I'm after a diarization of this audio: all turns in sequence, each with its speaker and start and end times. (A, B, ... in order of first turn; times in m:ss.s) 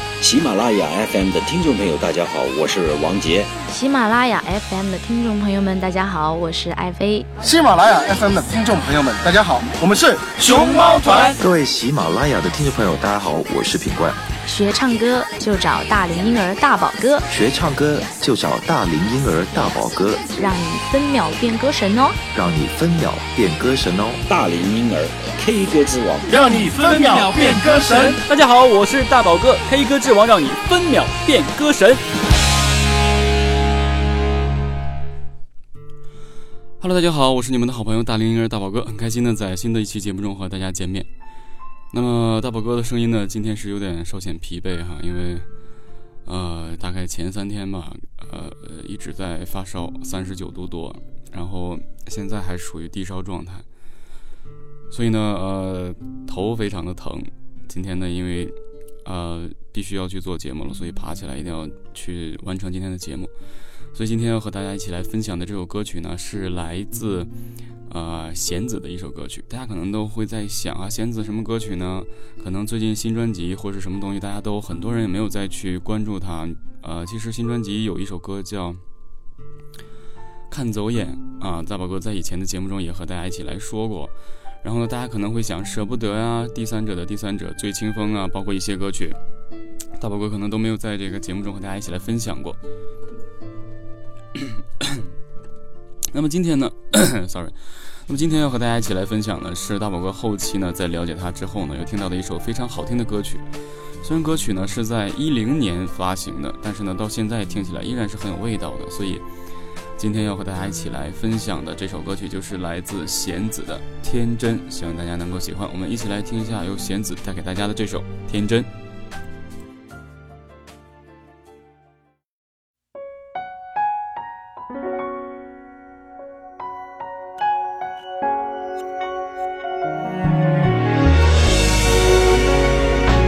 0:00.2-0:03.5 A
0:03.7-0:07.3 B
0:07.4-0:11.4 C
0:11.4-0:14.2 D
0:14.5-0:17.3 B
0:17.3-0:20.4 D
0:20.3-0:22.2 B
0:22.3-0:24.2 D
0:24.3-0:27.4 A
0:26.3-0:28.2 C
0:28.2-0:32.0 E
0:36.8-0:41.1 E
0:41.9-0:45.5 E
0:46.2-0:53.6 E
0:54.9-1:03.3 E
1:03.9-1:07.3 E
1:07.9-1:18.8 E
1:20.5-1:29.2 E
1:30.0-1:32.6 E
1:34.4-1:35.0 E
1:36.1-1:43.5 E
1:44.0-1:49.3 E
1:50.0-1:58.7 E